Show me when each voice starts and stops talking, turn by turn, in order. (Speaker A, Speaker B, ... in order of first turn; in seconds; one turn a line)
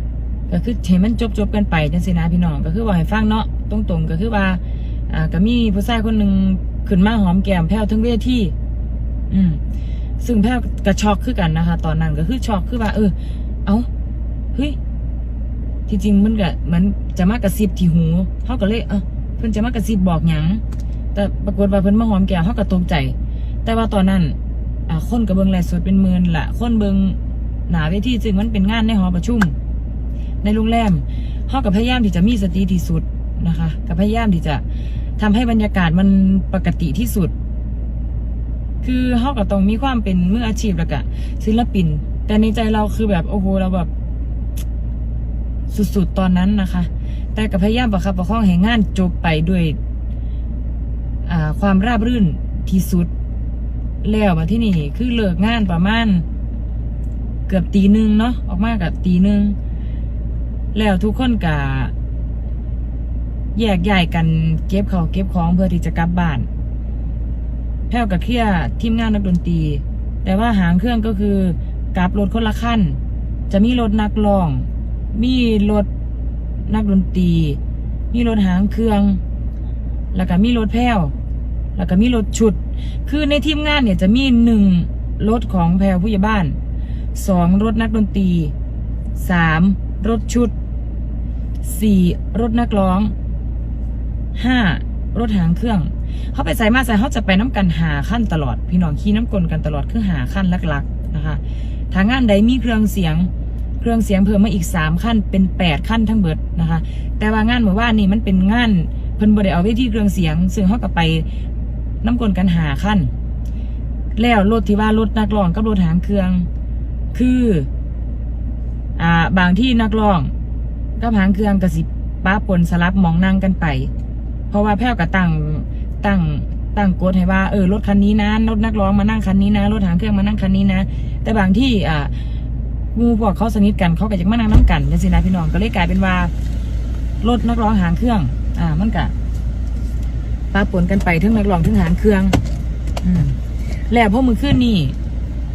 Speaker A: 0.5-8.5
Speaker A: 9.3-9.6
Speaker A: 10.2-13.9
Speaker A: 15.9-20.6
Speaker A: 21.1-24.4
Speaker A: 24.9-29.5
Speaker A: 30.4-34.6
Speaker A: 35.2-37.3
Speaker A: 38.8-43.9
Speaker A: 45.7-49.8
Speaker A: 51.2-53.1
Speaker A: 54.0-56.2
Speaker A: 57.5-59.6
Speaker A: 60.7-61.9
Speaker A: 63.5-66.5
Speaker A: 67.9-73.0
Speaker A: 73.5-75.9
Speaker A: 76.7-77.6
Speaker A: 78.1-79.2
Speaker A: 80.1-81.1
Speaker A: 81.8-86.6
Speaker A: 87.1-88.5
Speaker A: 89.2-90.5
Speaker A: 91.6-93.1
Speaker A: 94.3-103.3
Speaker A: 103.8-111.3
Speaker A: 112.0-113.1
Speaker A: 114.2-116.5
Speaker A: 117.1-117.7
Speaker A: 119.0-120.3
Speaker A: 121.0-123.9
Speaker A: 124.5-132.1
Speaker A: 132.9-136.3
Speaker A: 137.2-139.1
Speaker A: 140.5-142.4
Speaker A: 143.0-143.4
Speaker A: 143.9-144.9